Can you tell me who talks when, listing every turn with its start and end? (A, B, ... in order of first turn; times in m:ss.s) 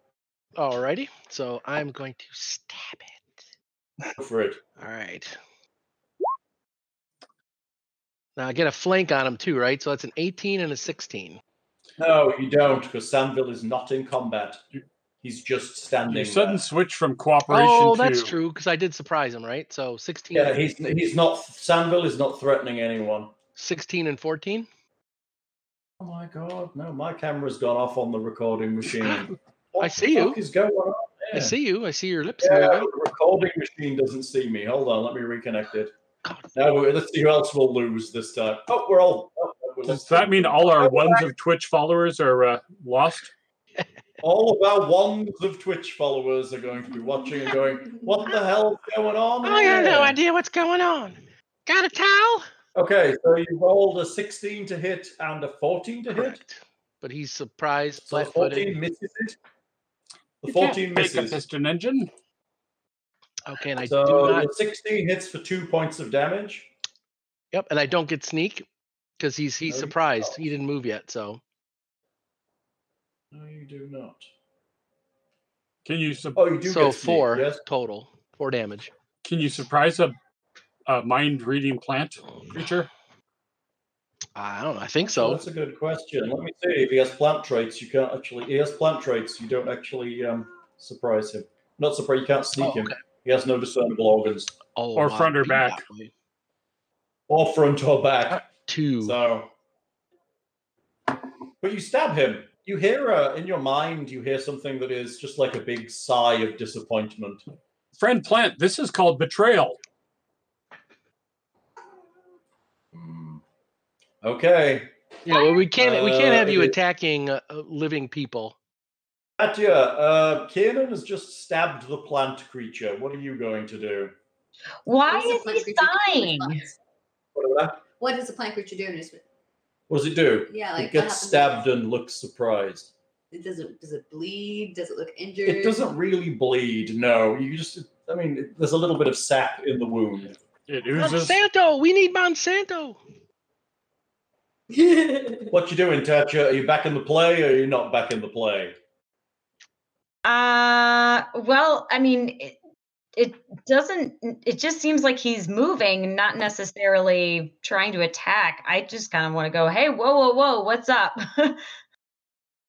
0:00.6-0:03.4 A
0:04.2-0:04.6 B
0:04.8-0:05.4 A
0:08.4-0:11.4 A
0:12.0-0:14.6 B
0:15.2-0:16.6 B
0:16.1-0:18.3 C
0:17.5-0:20.6 A
0:20.3-0:23.3 B
0:23.6-0:24.7 A
0:26.0-0:31.6 B
0:29.0-0:29.3 A
0:29.8-0:30.4 A
0:31.3-0:32.9 A
0:32.4-0:35.9 B
0:36.2-0:36.5 A
0:36.6-0:41.3 B
0:39.9-0:43.3 C
0:44.2-0:50.2 B
0:49.4-0:52.5 A
0:52.8-0:56.4 B
0:56.1-0:58.7 A
0:58.1-0:59.4 B
1:00.4-1:01.4 B
1:00.5-1:02.1 C
1:03.5-1:04.5 A
1:03.8-1:06.7 B
1:07.5-1:08.7 A
1:09.2-1:11.4 A
1:09.7-1:10.5 B
1:13.3-1:14.3 B
1:15.8-1:16.4 C
1:16.4-1:17.6 B
1:16.6-1:18.9 A
1:19.2-1:20.2 C
1:20.9-1:22.9 C
1:24.4-1:25.4 A
1:25.1-1:34.5 B
1:32.6-1:33.0 A
1:34.8-1:36.1 A
1:35.0-1:35.8 C
1:37.3-1:38.5 B
1:38.3-1:39.2 A
1:39.0-1:39.5 B
1:41.6-1:47.4 B
1:47.9-1:49.8 C
1:52.9-1:53.4 B
1:54.2-1:54.9 B
1:55.2-1:58.6 A
1:55.8-1:56.8 B
1:59.4-2:04.1 B
2:04.9-2:06.7 D
2:05.1-2:06.8 E
2:07.4-2:07.8 B
2:08.0-2:09.2 E
2:09.9-2:12.9 B
2:10.5-2:11.6 E
2:13.3-2:15.8 E
2:15.4-2:20.4 B
2:20.7-2:21.4 C
2:21.0-2:23.0 A
2:24.7-2:25.5 E
2:25.5-2:28.8 B
2:30.2-2:32.6 D
2:33.2-2:41.6 D